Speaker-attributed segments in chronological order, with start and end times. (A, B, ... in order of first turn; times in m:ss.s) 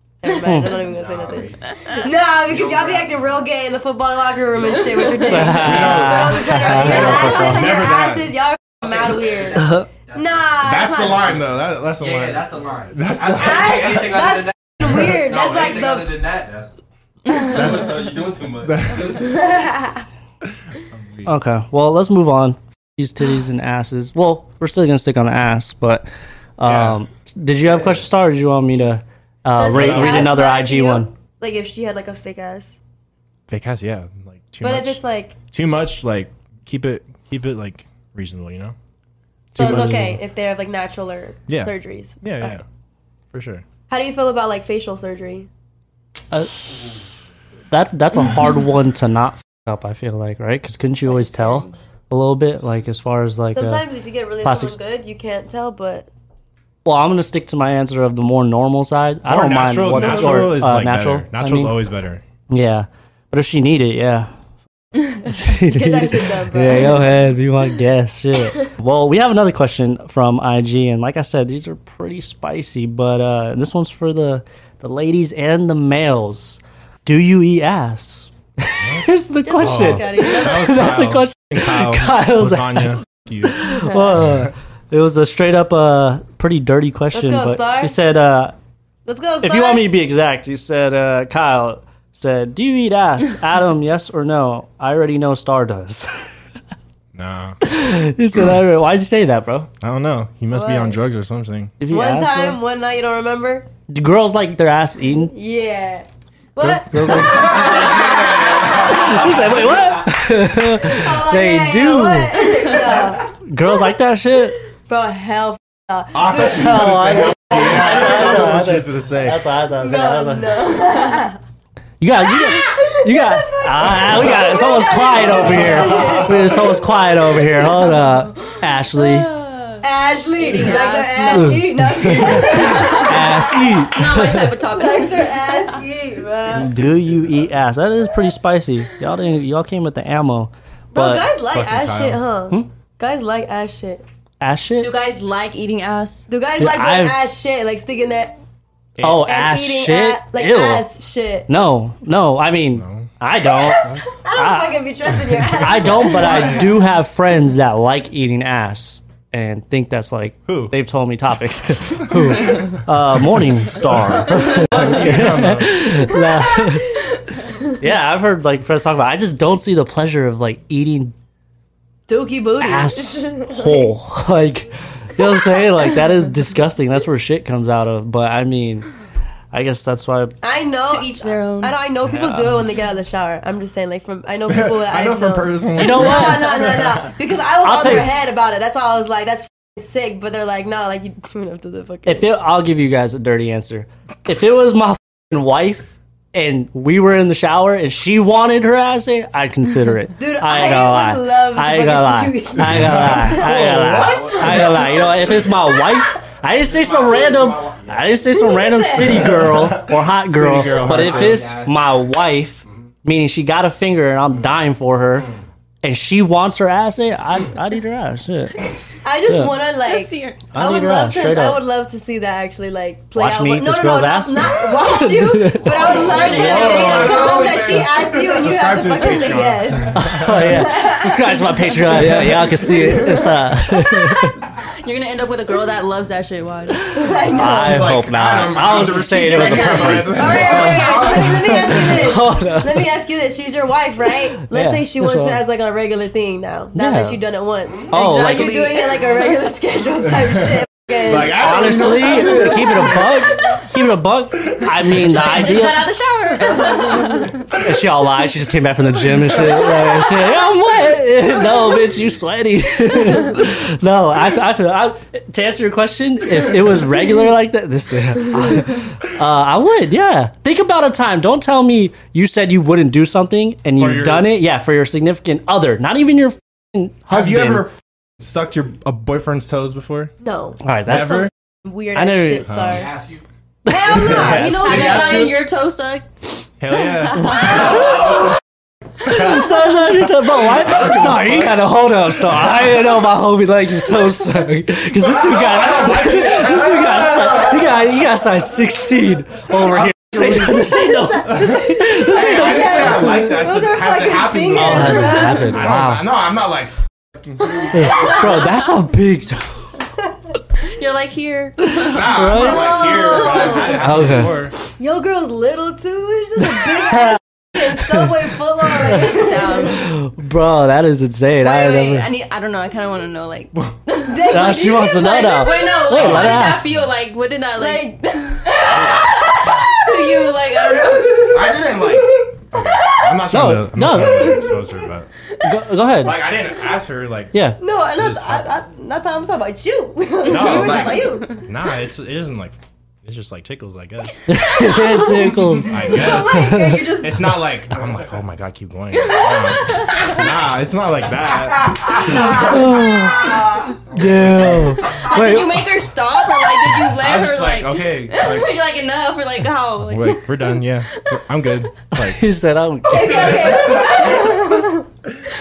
0:00.2-0:11.4 A
0:00.2-0:00.8 B
0:00.9-0:03.4 C
0:05.2-0:07.9 B
0:05.4-0:08.4 D
0:08.8-0:10.6 C
0:09.6-0:09.8 B
0:10.6-0:14.0 D
0:12.0-0:16.7 C
0:13.3-0:16.4 A
0:17.3-0:19.5 C
0:17.6-0:17.9 D
0:18.6-0:19.2 D
0:19.1-0:20.0 A
0:20.9-0:21.3 D
0:21.3-0:26.1 B
0:26.6-0:31.1 B
0:26.6-0:27.0 D
0:29.6-0:32.8 A
0:29.7-0:30.3 D
0:33.5-0:38.8 D
0:34.6-0:35.4 A
0:39.5-0:40.2 B
0:39.6-0:42.6 A
0:41.5-0:42.6 D
0:43.3-0:43.6 D
0:43.9-0:45.5 A
0:47.7-0:53.8 B
0:51.1-0:51.8 E
0:53.5-0:56.1 A
0:54.4-0:54.8 B
0:56.8-1:01.8 B
0:59.3-1:02.2 D
1:02.5-1:04.3 B
1:05.2-1:28.6 B
1:05.6-1:07.1 A
1:18.8-1:19.1 D
1:19.4-1:21.0 A
1:19.6-1:24.5 D
1:23.9-1:24.2 A
1:27.1-1:28.0 A
1:29.1-1:29.9 A
1:29.4-1:36.1 B
1:37.1-1:37.6 D
1:37.6-1:39.7 B
1:39.8-1:41.8 D
1:40.5-1:41.0 A
1:41.8-1:42.6 B
1:41.9-1:43.7 A
1:43.9-1:45.3 B
1:45.3-1:49.3 A
1:46.6-1:52.8 B
1:47.5-1:49.6 D
1:50.8-1:53.4 A
1:53.3-1:54.6 B
1:54.9-1:58.2 A
1:56.1-1:59.4 D
1:56.4-2:00.6 B
1:59.7-2:01.4 A
2:02.0-2:09.3 B
2:02.4-2:07.5 A
2:05.1-2:06.6 D
2:08.9-2:15.8 E
2:09.8-2:13.9 A
2:11.3-2:14.5 B
2:14.6-2:16.8 A
2:16.5-2:21.3 B
2:20.9-2:24.0 A
2:21.5-2:22.2 D
2:24.4-2:24.9 B
2:24.8-2:26.3 E
2:26.3-2:28.4 A
2:26.6-2:27.2 B
2:29.0-2:29.3 D
2:29.0-2:30.9 B
2:29.1-2:31.5 A
2:31.5-2:34.8 B
2:32.8-2:33.1 D
2:33.4-2:36.8 A
2:33.8-2:34.0 D
2:35.6-2:47.0 B
2:36.2-2:36.4 D
2:40.5-2:40.8 D
2:42.1-2:42.7 D
2:43.7-2:46.1 D
2:47.7-2:51.1 B
2:52.1-2:53.9 A
2:52.6-2:58.9 B
2:59.5-3:00.4 B
3:00.4-3:12.3 A
3:00.8-3:01.8 E
3:02.1-3:02.7 B
3:04.5-3:07.1 D
3:05.8-3:06.9 B
3:06.0-3:06.4 E
3:07.6-3:08.1 B
3:12.1-3:35.3 B
3:20.2-3:26.0 A
3:22.6-3:24.8 D
3:24.0-3:25.2 C
3:26.6-3:28.4 C
3:28.4-3:29.4 A
3:29.0-3:31.6 D
3:30.8-3:31.8 C
3:35.8-3:38.6 B
3:39.0-3:53.6 A
3:39.3-3:39.6 B
3:39.8-3:40.4 E
3:40.5-3:41.6 B
3:43.2-3:46.9 B
3:45.7-3:48.1 E
3:46.1-3:47.7 C
3:46.3-3:50.7 D
3:49.9-3:54.4 B
3:54.6-3:57.0 E
3:56.9-3:58.0 A
3:57.3-4:02.9 B
3:57.4-4:01.0 D
3:58.9-4:01.3 E
3:59.4-4:13.1 A
4:04.4-4:05.4 B
4:06.8-4:07.2 B
4:07.9-4:08.7 B
4:07.9-4:09.3 E
4:10.3-4:13.1 D
4:11.3-4:15.9 B
4:14.9-4:17.5 E
4:17.5-4:37.7 B
4:33.8-4:34.4 D
4:37.1-4:40.1 D
4:40.2-4:43.0 A
4:40.6-4:41.3 B
4:40.8-4:41.3 D
4:42.0-4:42.5 B
4:42.4-4:42.9 D
4:42.6-4:43.2 C
4:43.7-4:45.3 B
4:43.7-4:45.4 A
4:43.9-4:45.1 D
4:44.3-4:46.1 E
4:46.6-4:48.2 D
4:47.2-4:47.8 E
4:47.3-4:48.2 B
4:49.0-5:03.3 B
4:50.5-4:51.5 D
4:55.0-4:57.6 D
4:59.5-5:00.6 D
5:01.3-5:07.7 D
5:01.4-5:05.7 A
5:04.5-5:06.1 B
5:07.7-5:09.7 B
5:07.8-5:08.2 A
5:07.9-5:08.5 E
5:10.6-5:12.1 E
5:11.8-5:14.6 D
5:11.8-5:12.9 B
5:12.3-5:14.1 A
5:13.7-5:14.5 B
5:14.7-5:19.8 A
5:16.5-5:17.2 B
5:17.8-5:18.0 B
5:19.0-5:19.8 E
5:19.6-5:22.1 B
5:21.4-5:31.5 E
5:24.0-5:25.8 A
5:24.3-5:26.6 B
5:25.9-5:26.8 D
5:27.6-5:33.2 A
5:31.2-5:35.1 D
5:33.3-5:34.4 B
5:35.4-5:36.2 B
5:36.0-5:37.4 D
5:37.3-5:37.6 B
5:37.6-5:41.4 A
5:37.9-5:38.5 D
5:40.2-5:44.6 D
5:41.0-5:41.4 E
5:44.3-5:46.9 B
5:44.7-5:47.5 A
5:45.6-5:52.6 D
5:49.0-5:50.3 E
5:52.1-5:55.7 B
5:54.8-6:01.5 E
5:56.9-5:58.6 D
5:59.8-6:02.2 D
6:02.0-6:03.7 B
6:02.8-6:04.9 A
6:03.1-6:04.4 D